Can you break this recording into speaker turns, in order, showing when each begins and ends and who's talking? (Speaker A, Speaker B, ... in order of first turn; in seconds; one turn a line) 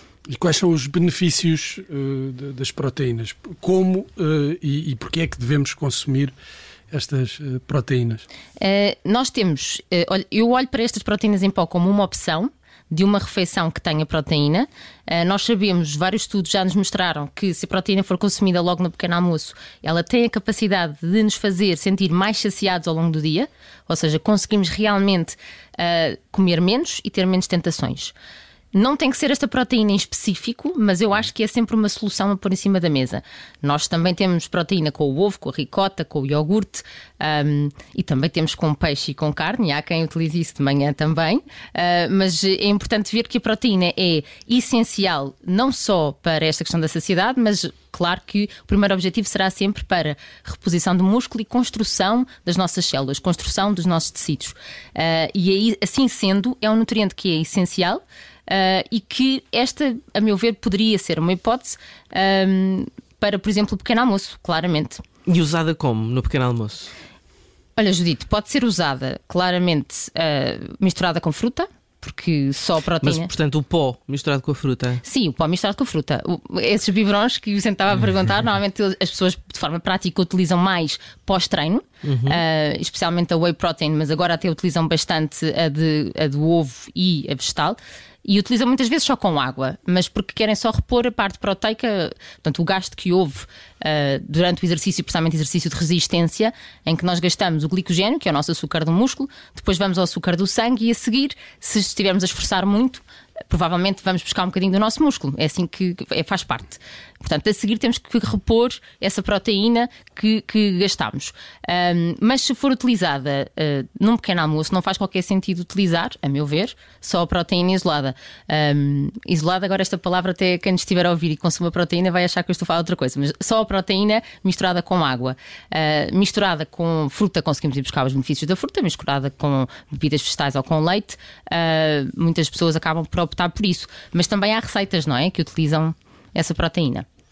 Speaker A: 0.3-6.3
Speaker A: 6.9-8.2
Speaker B: 8.6-28.1
Speaker B: 28.7-65.0
Speaker C: 65.3-66.9
Speaker B: 67.8-73.3
Speaker C: 73.0-75.0
Speaker B: 75.0-137.1
Speaker C: 82.0-82.4